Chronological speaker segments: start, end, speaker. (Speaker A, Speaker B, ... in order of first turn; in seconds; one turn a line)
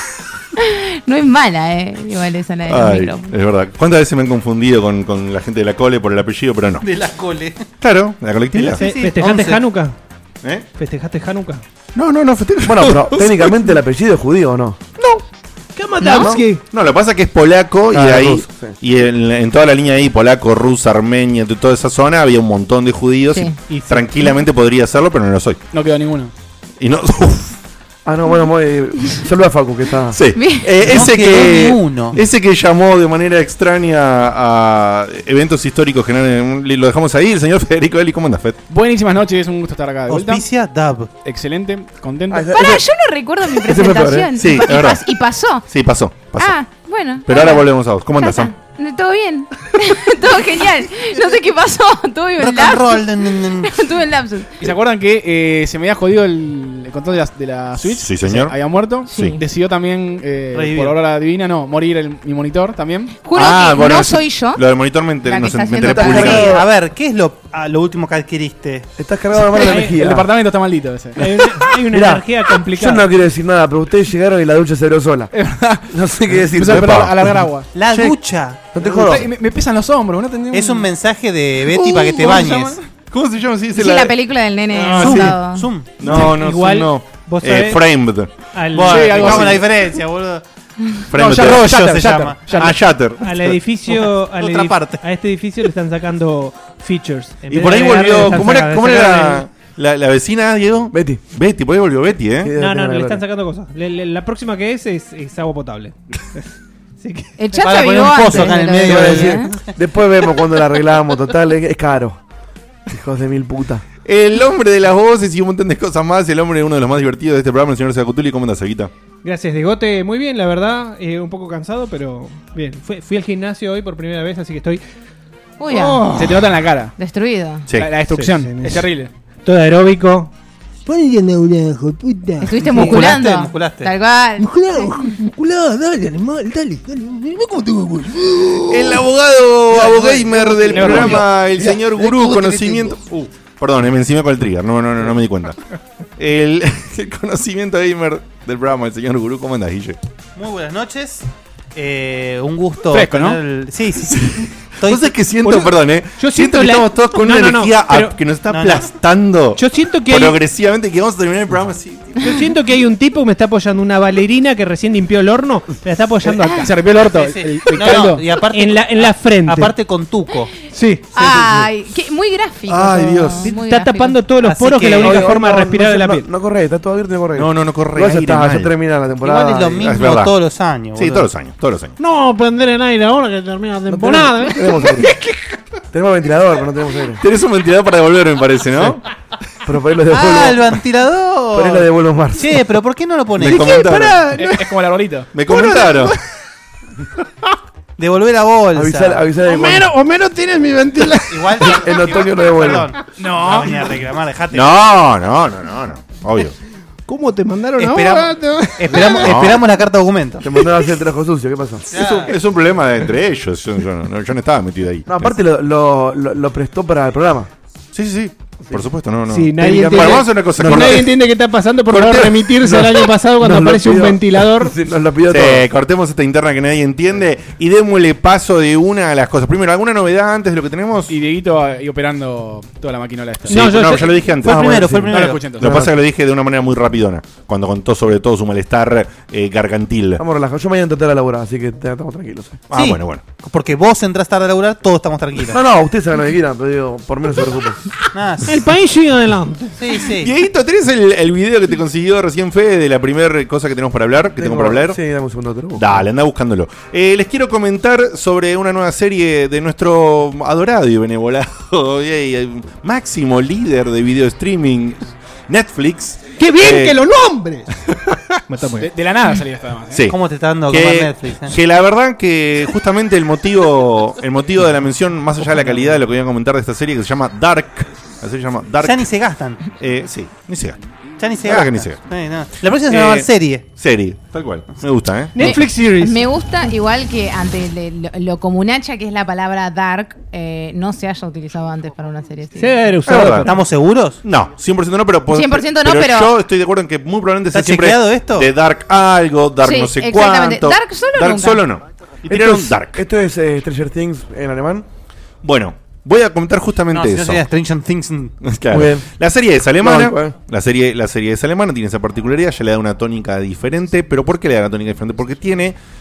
Speaker A: 0.6-3.3
Speaker B: 2.7-6.8
Speaker C: 6.8-7.7
Speaker B: 7.8-8.8
Speaker C: 8.5-9.6
Speaker D: 8.8-9.9
Speaker D: 10.8-11.6
Speaker B: 11.9-13.5
Speaker E: 12.6-14.8
Speaker D: 15.8-16.6
Speaker A: 16.0-16.3
Speaker E: 16.1-16.4
Speaker B: 16.1-25.6
Speaker E: 17.9-18.7
Speaker A: 23.3-23.6
Speaker D: 23.7-24.1
Speaker F: 25.7-26.3
Speaker B: 26.8-27.6
Speaker E: 28.0-30.2
Speaker B: 30.1-38.6
Speaker A: 30.3-30.7
Speaker C: 30.8-32.2
Speaker F: 38.7-40.4
Speaker C: 40.1-41.1
Speaker F: 41.2-42.7
Speaker E: 42.3-42.8
Speaker A: 42.5-45.6
Speaker E: 43.6-44.3
Speaker B: 44.3-46.5
Speaker A: 46.4-47.7
Speaker B: 47.2-48.5
Speaker A: 48.2-54.7
Speaker C: 52.4-53.8
Speaker F: 54.6-63.2
Speaker B: 57.8-58.5
Speaker A: 59.1-59.4
Speaker B: 59.1-59.4
Speaker C: 60.5-61.0
Speaker A: 63.2-64.6
Speaker B: 63.3-66.6
Speaker A: 65.2-66.6
Speaker C: 66.0-68.9
Speaker E: 69.0-70.3
Speaker D: 69.6-70.0
Speaker F: 69.6-71.5
Speaker D: 71.2-73.1
Speaker E: 71.2-75.3
Speaker F: 75.3-77.7
Speaker E: 75.9-77.2
Speaker B: 76.7-77.1
Speaker C: 77.7-79.2
Speaker E: 78.7-79.3
Speaker F: 78.8-80.9
Speaker C: 80.5-82.8
Speaker B: 81.7-84.1
Speaker A: 83.7-85.7
Speaker C: 84.8-86.2
Speaker B: 84.9-85.3
Speaker B: 86.0-88.3
Speaker D: 86.0-87.8
Speaker D: 88.5-89.5
Speaker C: 88.7-90.4
Speaker F: 88.8-89.6
Speaker B: 89.0-89.6
Speaker B: 91.1-93.6
Speaker F: 91.1-92.8
Speaker C: 91.2-92.7
Speaker D: 93.2-99.4
Speaker C: 93.9-95.0
Speaker B: 97.5-102.5
Speaker E: 100.9-101.2
Speaker E: 102.4-103.2
Speaker D: 102.5-106.4
Speaker D: 107.0-107.3
Speaker A: 107.4-109.5
Speaker C: 107.6-109.6
Speaker E: 108.8-112.2
Speaker E: 112.9-113.8
Speaker B: 114.0-118.9
Speaker D: 119.2-124.8
Speaker A: 125.6-126.1
Speaker D: 125.7-126.5
Speaker F: 126.1-126.9
Speaker A: 127.0-127.7
Speaker B: 127.7-128.0
Speaker F: 127.7-129.1
Speaker D: 128.1-128.9
Speaker D: 129.4-130.3
Speaker G: 130.9-132.9
Speaker A: 132.4-135.1
Speaker C: 132.6-133.9
Speaker G: 134.4-138.9
Speaker B: 138.7-145.6
Speaker F: 139.7-141.2
Speaker C: 140.7-141.2
Speaker G: 141.5-142.9
Speaker B: 146.2-150.0
Speaker C: 150.3-155.2
Speaker F: 152.9-153.4
Speaker B: 154.3-162.3
Speaker D: 155.4-158.2
Speaker C: 158.5-158.9
Speaker D: 159.6-160.4
Speaker D: 162.2-166.7
Speaker F: 166.3-168.3
Speaker C: 166.9-170.5
Speaker D: 168.4-169.7
Speaker D: 170.7-171.0
Speaker A: 171.1-174.2
Speaker B: 171.2-171.6
Speaker B: 172.7-173.6
Speaker D: 173.4-176.2
Speaker C: 174.4-175.3
Speaker E: 175.0-179.9
Speaker B: 177.3-178.7
Speaker C: 179.2-181.3
Speaker B: 179.7-180.3
Speaker B: 180.9-181.9
Speaker D: 182.0-185.3
Speaker E: 183.9-185.1
Speaker E: 185.9-187.2
Speaker B: 187.2-189.0
Speaker E: 189.6-190.8
Speaker C: 190.1-193.7
Speaker E: 191.5-192.6
Speaker B: 193.4-194.4
Speaker D: 193.8-194.5
Speaker F: 194.3-195.3
Speaker B: 195.3-196.2
Speaker C: 198.0-199.3
Speaker E: 198.7-199.9
Speaker D: 199.5-201.3
Speaker C: 201.3-204.7
Speaker E: 201.6-202.9
Speaker F: 203.2-204.0
Speaker B: 204.5-206.6
Speaker D: 207.1-209.2
Speaker C: 207.8-210.4
Speaker B: 209.1-209.6
Speaker E: 210.4-211.8
Speaker C: 211.9-212.4
Speaker B: 211.9-215.3
Speaker E: 215.1-217.5
Speaker B: 217.9-221.2
Speaker D: 219.3-224.7
Speaker E: 220.6-221.0
Speaker B: 221.9-222.5
Speaker E: 222.6-225.6
Speaker B: 225.3-231.1
Speaker F: 231.1-233.9
Speaker B: 233.5-234.8
Speaker D: 233.5-234.1
Speaker C: 234.4-235.6
Speaker E: 234.4-235.9
Speaker F: 235.1-235.8
Speaker B: 235.6-240.2
Speaker E: 240.2-242.6
Speaker B: 242.7-243.2
Speaker C: 242.7-245.6
Speaker E: 245.5-247.8
Speaker C: 248.1-248.6
Speaker D: 248.4-250.0
Speaker C: 249.8-250.3
Speaker B: 250.1-255.0
Speaker E: 254.4-256.1
Speaker B: 255.8-267.0
Speaker D: 266.4-267.4
Speaker B: 267.9-268.4
Speaker D: 268.5-268.9
Speaker F: 268.8-270.1
Speaker C: 270.1-271.6
Speaker B: 270.7-279.1
Speaker C: 278.8-279.6
Speaker B: 279.8-280.8
Speaker C: 281.2-283.6
Speaker B: 281.4-282.0
Speaker B: 282.9-285.6
Speaker D: 285.3-286.3
Speaker A: 285.4-292.9
Speaker D: 292.6-293.5
Speaker B: 293.0-293.5
Speaker C: 293.4-294.2
Speaker B: 294.2-303.0
Speaker A: 295.3-296.3
Speaker C: 297.5-298.5
Speaker A: 299.6-301.6
Speaker E: 302.3-304.9
Speaker B: 305.4-307.4
Speaker C: 306.9-308.4
Speaker B: 308.4-315.8
Speaker E: 308.7-309.1
Speaker E: 309.8-310.4